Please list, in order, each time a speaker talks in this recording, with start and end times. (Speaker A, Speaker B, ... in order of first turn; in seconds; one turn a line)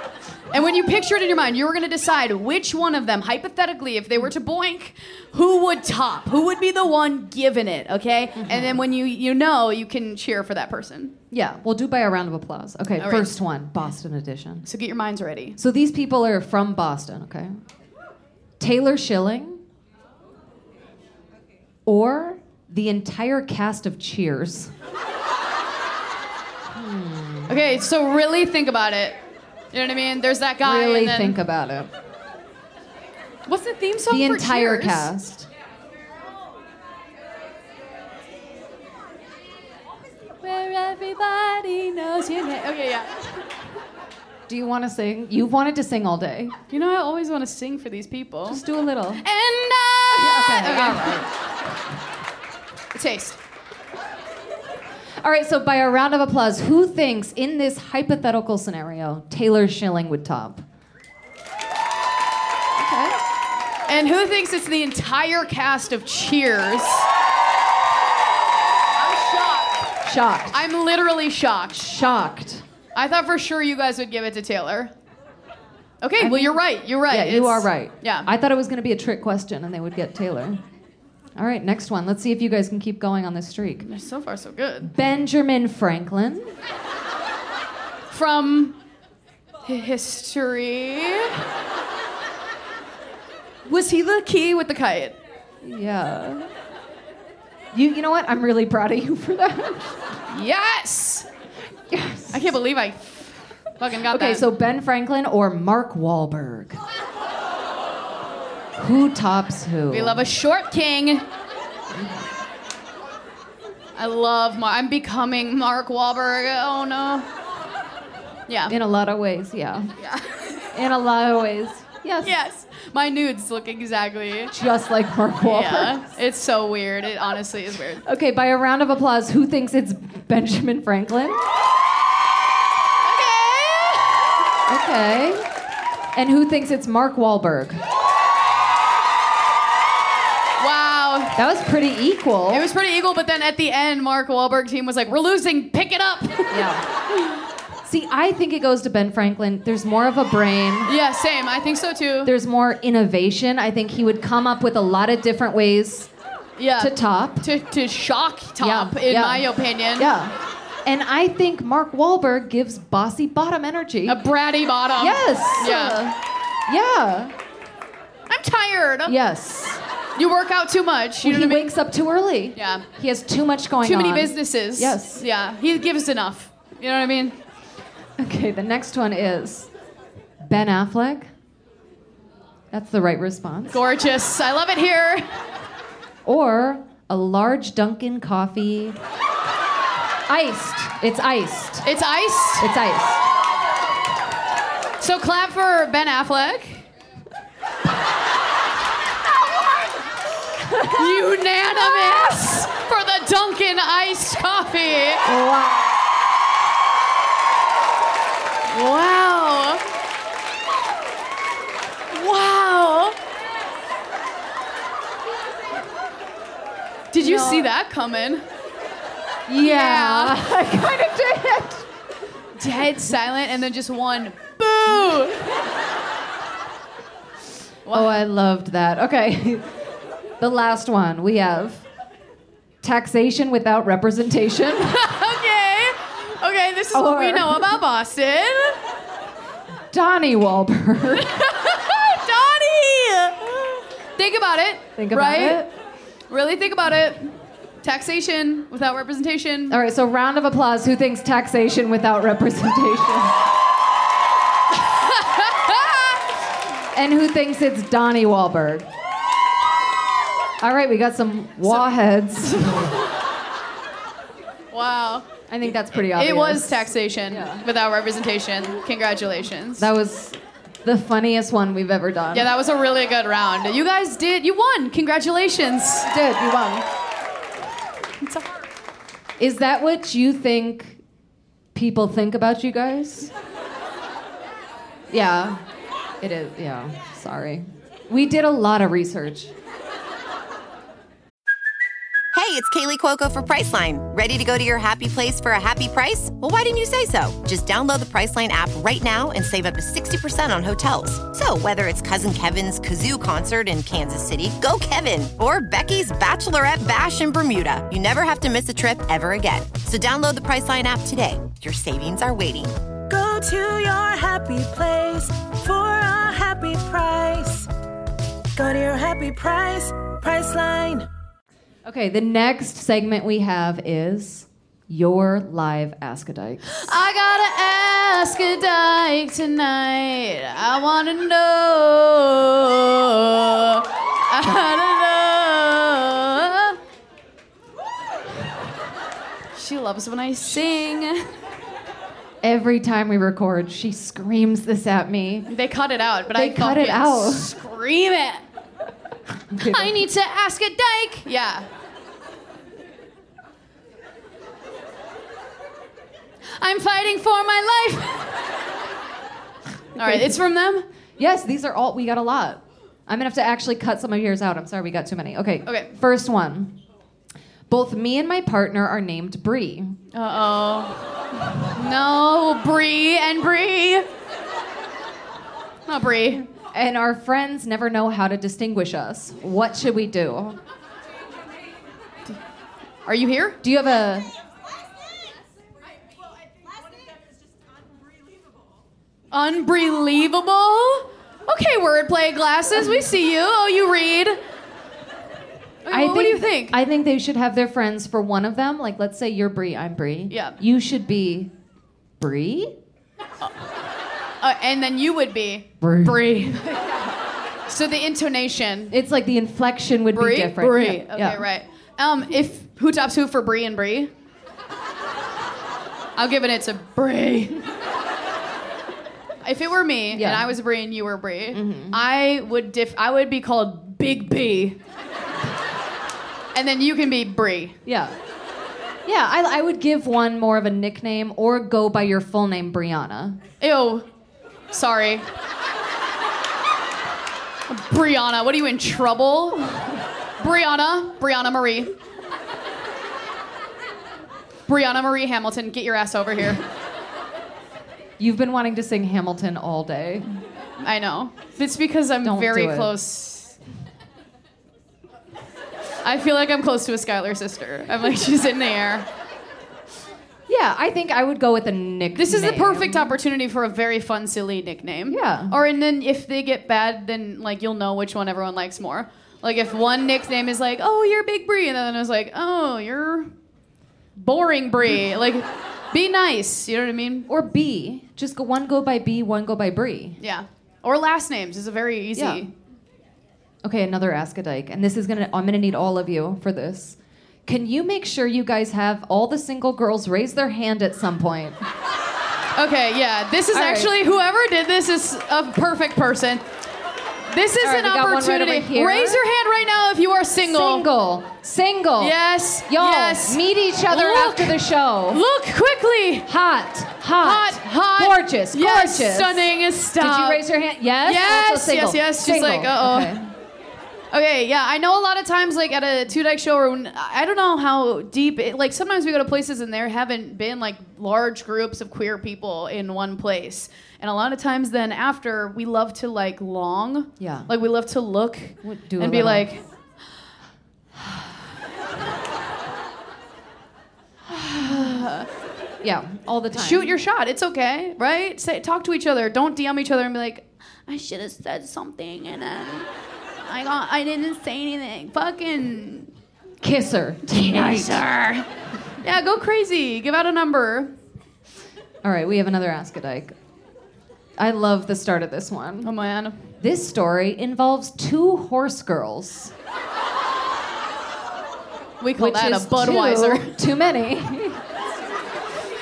Speaker A: 0.5-11.1
Speaker B: 8.4-8.8
Speaker B: 11.3-14.7
Speaker A: 13.0-13.3
Speaker A: 14.6-15.6
Speaker B: 15.6-17.6
Speaker B: 18.6-19.6
Speaker B: 21.9-24.7
Speaker B: 26.7-27.8
Speaker A: 27.5-29.2
Speaker A: 29.7-31.4
Speaker B: 30.6-31.9
Speaker A: 33.5-35.1
Speaker B: 34.1-35.5
Speaker A: 40.4-43.2
Speaker B: 44.5-46.5
Speaker A: 46.7-48.6
Speaker B: 48.5-49.2
Speaker A: 49.2-51.2
Speaker B: 50.1-51.3
Speaker A: 52.9-53.4
Speaker B: 55.2-60.6
Speaker B: 62.8-63.2
Speaker A: 63.9-67.1
Speaker A: 69.0-69.8
Speaker B: 70.0-70.6
Speaker A: 70.5-71.8
Speaker B: 71.7-72.6
Speaker A: 72.9-74.9
Speaker A: 76.0-78.3
Speaker B: 76.2-80.6
Speaker B: 81.3-83.8
Speaker A: 83.8-84.9
Speaker B: 84.8-86.5
Speaker A: 88.1-88.8
Speaker A: 89.7-91.4
Speaker A: 93.7-95.2
Speaker B: 95.6-96.5
Speaker B: 97.7-100.0
Speaker A: 100.3-101.3
Speaker B: 101.9-102.5
Speaker A: 102.3-104.5
Speaker B: 104.1-106.8
Speaker B: 108.8-110.2
Speaker A: 109.9-111.2
Speaker B: 111.9-112.3
Speaker A: 114.0-117.3
Speaker A: 118.5-118.7
Speaker B: 118.7-119.9
Speaker A: 120.0-120.6
Speaker B: 120.7-122.3
Speaker A: 122.2-124.5
Speaker B: 124.5-126.1
Speaker A: 125.4-128.0
Speaker B: 128.0-131.4
Speaker A: 133.0-134.2
Speaker B: 134.7-135.5
Speaker B: 136.1-137.8
Speaker A: 140.6-141.4
Speaker B: 141.3-142.7
Speaker A: 142.5-146.7
Speaker B: 146.5-146.8
Speaker B: 147.8-150.9
Speaker A: 150.8-152.3
Speaker B: 152.2-156.1
Speaker A: 156.6-160.1
Speaker B: 156.8-157.5
Speaker B: 158.6-164.2
Speaker A: 164.1-166.0
Speaker B: 165.0-167.3
Speaker A: 168.3-169.1
Speaker B: 169.1-169.8
Speaker A: 170.2-171.7
Speaker B: 171.2-175.2
Speaker A: 172.6-172.8
Speaker A: 173.8-177.3
Speaker B: 178.2-179.7
Speaker B: 180.4-181.3
Speaker B: 182.7-183.8
Speaker A: 183.7-185.3
Speaker B: 186.2-189.0
Speaker B: 190.3-191.9
Speaker A: 191.8-192.7
Speaker B: 192.6-193.3
Speaker A: 195.0-196.8
Speaker B: 199.5-199.8
Speaker B: 200.6-202.7
Speaker A: 200.8-205.3
Speaker B: 205.2-206.0
Speaker A: 208.7-209.8
Speaker A: 212.1-213.2
Speaker A: 217.1-218.4
Speaker B: 217.2-217.7
Speaker B: 219.5-221.8
Speaker A: 219.6-220.4
Speaker A: 222.6-225.5
Speaker A: 227.8-228.1
Speaker B: 227.9-229.7
Speaker B: 230.4-231.8
Speaker B: 232.8-235.1
Speaker A: 234.9-238.8
Speaker B: 236.9-237.7
Speaker B: 239.9-241.4
Speaker A: 241.2-245.7
Speaker B: 245.0-245.7
Speaker A: 246.3-249.8
Speaker B: 249.7-253.4
Speaker A: 254.8-256.2
Speaker B: 256.9-258.9
Speaker B: 260.6-262.9
Speaker A: 261.6-261.9
Speaker A: 262.5-262.9
Speaker A: 264.7-265.3
Speaker B: 265.5-267.6
Speaker A: 265.9-269.9
Speaker B: 269.8-272.5
Speaker A: 272.3-276.1
Speaker B: 276.1-276.9
Speaker A: 278.2-278.6
Speaker B: 279.4-281.0
Speaker B: 281.7-283.3
Speaker B: 285.1-285.6
Speaker B: 286.2-289.5
Speaker C: 292.3-312.8
Speaker D: 313.1-317.7
Speaker D: 318.5-321.1
Speaker B: 321.8-326.9
Speaker A: 326.7-336.8
Speaker A: 339.5-341.3
Speaker B: 342.4-345.5
Speaker A: 345.5-348.4
Speaker B: 346.3-347.5
Speaker B: 349.5-350.0
Speaker A: 349.6-351.7
Speaker A: 356.5-358.3
Speaker B: 359.9-360.4
Speaker A: 359.9-360.9
Speaker B: 361.2-366.8
Speaker A: 365.6-365.9
Speaker B: 367.7-369.9
Speaker A: 370.1-374.1
Speaker A: 375.9-376.4
Speaker B: 376.5-380.6
Speaker A: 383.1-383.6
Speaker B: 383.6-384.3
Speaker A: 389.3-394.4
Speaker A: 395.8-396.8
Speaker B: 395.9-401.5
Speaker A: 400.3-400.6
Speaker B: 402.2-402.8
Speaker A: 404.4-406.9
Speaker B: 405.8-406.8
Speaker A: 407.7-408.9
Speaker B: 408.9-411.4
Speaker A: 410.1-414.1
Speaker A: 416.1-417.6
Speaker A: 419.4-424.8
Speaker B: 420.1-420.6
Speaker B: 421.5-422.0
Speaker A: 426.5-427.8
Speaker B: 427.8-428.1
Speaker B: 429.1-433.4
Speaker A: 433.6-434.1
Speaker A: 434.7-435.2
Speaker A: 437.7-439.7
Speaker A: 440.4-441.9
Speaker A: 444.7-446.6
Speaker B: 448.2-450.3
Speaker A: 450.8-453.6
Speaker B: 452.2-452.9
Speaker A: 456.0-459.1
Speaker B: 460.5-463.2
Speaker A: 462.1-473.3
Speaker B: 465.1-465.6
Speaker A: 474.1-477.3
Speaker B: 477.3-480.2
Speaker A: 480.2-482.5
Speaker B: 482.1-482.4
Speaker B: 483.6-491.6
Speaker A: 492.5-496.4
Speaker B: 493.5-493.9
Speaker A: 497.3-500.9
Speaker B: 497.6-499.2
Speaker B: 500.4-505.2
Speaker A: 502.0-506.3
Speaker B: 506.2-513.3
Speaker A: 507.2-510.4
Speaker A: 511.0-513.2
Speaker A: 514.1-529.6
Speaker B: 527.2-527.5
Speaker B: 528.6-529.5
Speaker B: 531.0-531.2
Speaker A: 534.3-535.3
Speaker B: 534.6-535.0
Speaker B: 535.8-537.0
Speaker A: 536.5-542.9
Speaker A: 543.4-546.1
Speaker B: 546.6-548.0
Speaker A: 547.2-548.5
Speaker A: 549.0-550.9
Speaker B: 552.0-553.4
Speaker B: 554.4-555.9
Speaker A: 555.8-556.4
Speaker B: 556.6-559.5
Speaker A: 562.0-563.6
Speaker B: 562.2-564.6